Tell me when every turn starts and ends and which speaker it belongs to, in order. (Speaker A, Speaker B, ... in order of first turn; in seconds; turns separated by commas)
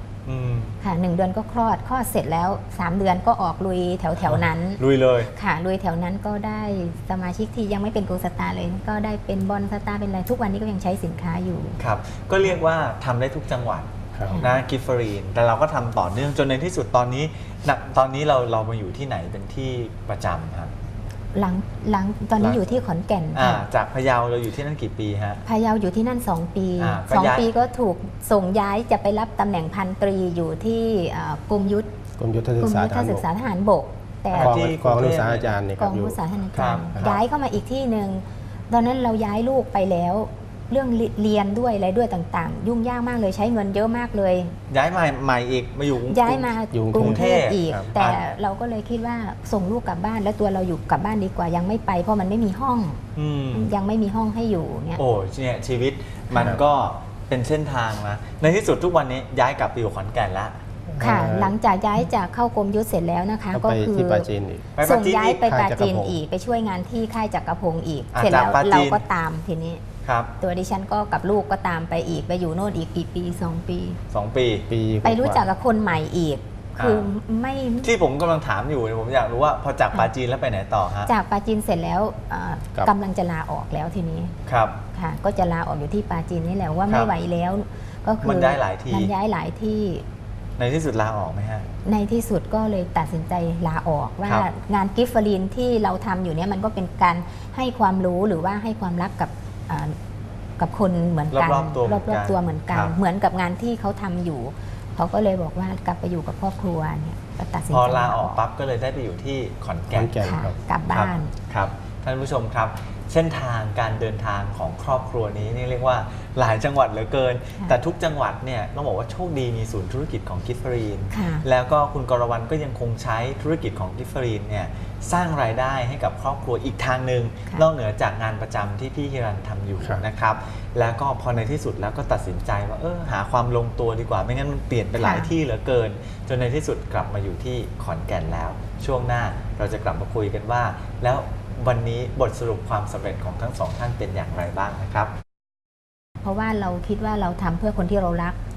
Speaker A: 0.2-0.8, Speaker B: 0.8-4.8, Speaker A: 4.2-5.3, Speaker B: 5.3-11.8, Speaker A: 11.8-20.7, Speaker C: 14.2-14.4, Speaker B: 14.3-14.6, Speaker B: 21.3-23.6, Speaker A: 22.4-22.7, Speaker A: 23.3-25.4, Speaker B: 25.4-31.9, Speaker A: 26.8-27.5, Speaker C: 32.2-33.3, Speaker B: 32.6-34.7, Speaker A: 34.3-35.6, Speaker C: 34.3-36.2, Speaker B: 35.8-44.5, Speaker A: 36.5-37.2, Speaker A: 44.7-48.2, Speaker B: 46.1-53.0, Speaker C: 46.7-47.9, Speaker A: 53.1-53.7, Speaker B: 53.5-55.0, Speaker A: 55.0-60.5, Speaker B: 56.3-56.6, Speaker C: 60.9-61.5, Speaker B: 61.0-64.3, Speaker C: 63.5-64.7, Speaker A: 64.8-65.4, Speaker B: 64.8-69.8, Speaker C: 65.4-66.2, Speaker A: 68.1-69.0, Speaker A: 70.0-70.3, Speaker B: 70.4-74.0, Speaker A: 74.1-74.7, Speaker C: 74.7-75.5, Speaker B: 75.0-77.9, Speaker A: 76.8-77.1, Speaker A: 77.8-81.1, Speaker B: 81.1-84.3, Speaker A: 84.5-84.8, Speaker B: 84.9-90.0, Speaker A: 86.9-87.1, Speaker A: 88.2-89.1, Speaker A: 90.6-91.7, Speaker B: 91.8-100.0, Speaker A: 94.2-94.5, Speaker B: 100.6-108.4, Speaker A: 101.3-103.0, Speaker A: 107.7-110.2, Speaker C: 109.9-110.6, Speaker B: 110.2-111.3, Speaker A: 110.9-145.1, Speaker B: 121.1-121.5, Speaker B: 135.0-135.3, Speaker B: 146.2-148.4